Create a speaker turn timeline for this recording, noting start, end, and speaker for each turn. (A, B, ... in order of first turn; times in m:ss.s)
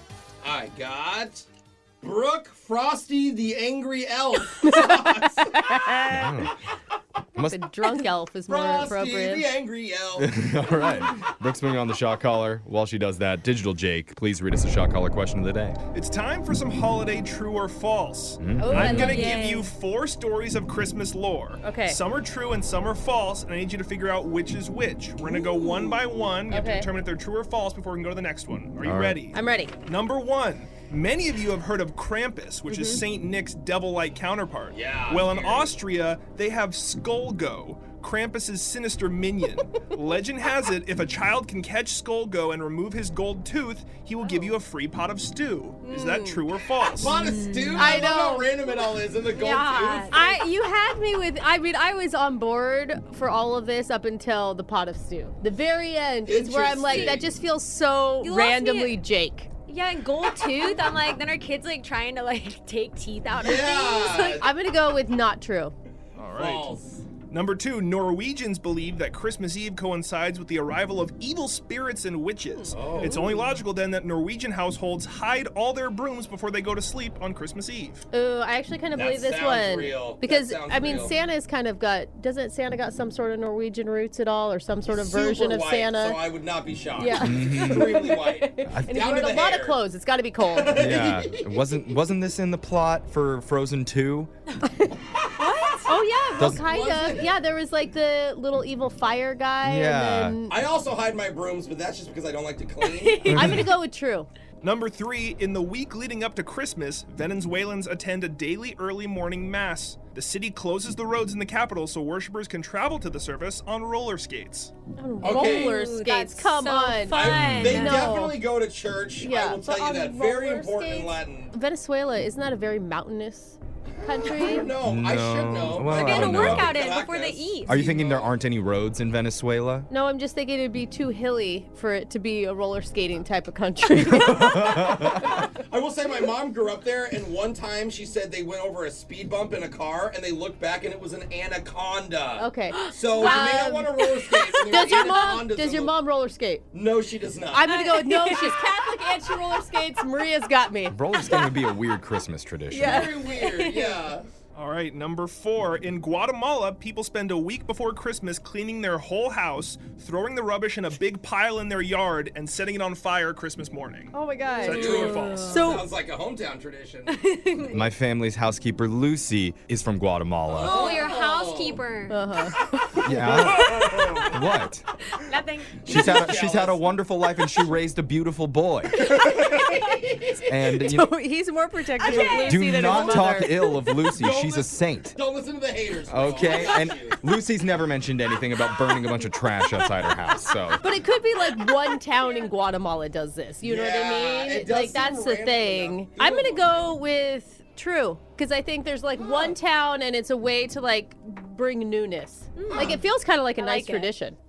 0:00.4-0:01.5 A
0:02.0-0:05.7 A
0:04.6-0:06.3 B
0:06.1-0:06.6 C
0:07.4-0:07.6 C
0:07.4-0:09.6 B
0:08.5-0:10.3 A
0:10.2-0:15.8 C
0:15.9-0:47.2 D
0:18.4-0:19.2 C
0:18.6-0:19.4 B
0:18.7-0:19.7 E
0:21.6-0:22.0 B
0:25.3-0:26.9 B
0:28.8-0:29.2 C
0:29.3-0:29.7 B
0:32.7-0:33.0 B
0:34.7-0:35.7 A
0:45.8-0:46.5 B
0:47.0-0:50.3 A
0:47.1-0:48.0 E
0:47.8-0:48.7 B
0:49.3-0:50.4 E
0:50.1-0:59.5 B
0:56.2-0:57.2 A
0:56.9-0:57.2 E
0:58.2-0:59.0 E
0:59.7-1:04.5 E
1:03.3-1:04.5 A
1:04.4-1:05.8 B
1:06.2-1:06.7 D
1:06.3-1:07.1 A
1:07.3-1:18.0 D
1:12.7-1:13.3 A
1:13.0-1:13.3 B
1:18.1-1:26.2 B
1:18.9-1:21.2 A
1:24.9-1:29.8 A
1:27.0-1:31.0 B
1:27.2-1:28.0 C
1:28.7-1:29.0 C
1:30.4-1:31.8 A
1:30.8-1:34.3 C
1:35.4-1:35.9 E
1:35.9-1:40.6 B
1:36.4-1:36.6 C
1:36.4-1:37.3 A
1:39.6-1:40.4 C
1:40.5-1:43.6 A
1:42.8-1:43.3 E
1:43.3-1:43.7 C
1:43.3-1:44.3 B
1:44.6-1:54.7 D
1:55.0-1:58.4 B
1:55.2-1:58.1 E
1:55.2-1:55.8 A
1:57.1-2:01.5 A
1:57.4-1:57.8 C
1:59.2-2:04.7 B
2:04.1-2:08.3 A
2:04.8-2:06.8 C
2:05.8-2:07.8 E
2:07.7-2:09.9 C
2:09.9-2:15.5 B
2:14.3-2:15.3 C
2:15.3-2:26.0 A
2:22.4-2:24.0 B
2:22.8-2:25.3 E
2:24.5-2:26.6 B
2:26.7-2:27.8 A
2:27.5-2:31.4 B
2:27.7-2:28.9 E
2:30.9-2:33.1 C
2:32.7-2:34.1 B
2:32.7-2:34.3 A
2:34.6-2:45.7 D
2:44.1-2:45.8 B
2:44.6-2:45.5 E
2:44.7-2:47.2 A
2:47.3-2:47.7 E
2:47.7-2:50.8 C
2:50.5-2:51.8 A
2:50.6-2:52.2 E
2:50.7-2:51.0 B
2:52.1-2:53.9 B
2:53.0-2:54.9 C
2:53.3-2:54.3 D
2:55.2-2:55.8 E
2:55.8-2:56.8 A
2:55.9-2:59.1 C
2:59.0-3:00.2 B
2:59.4-2:59.9 A
3:00.5-3:01.1 C
3:00.7-3:03.7 B
3:02.0-3:03.4 E
3:02.1-3:05.2 C
3:02.9-3:03.2 A
3:04.0-3:07.2 A
3:06.1-3:10.8 C
3:10.8-3:24.4 B
3:13.6-3:16.7 A
3:19.2-3:19.5 A
3:22.6-3:23.0 E
3:22.7-3:23.0 A
3:23.6-3:24.1 E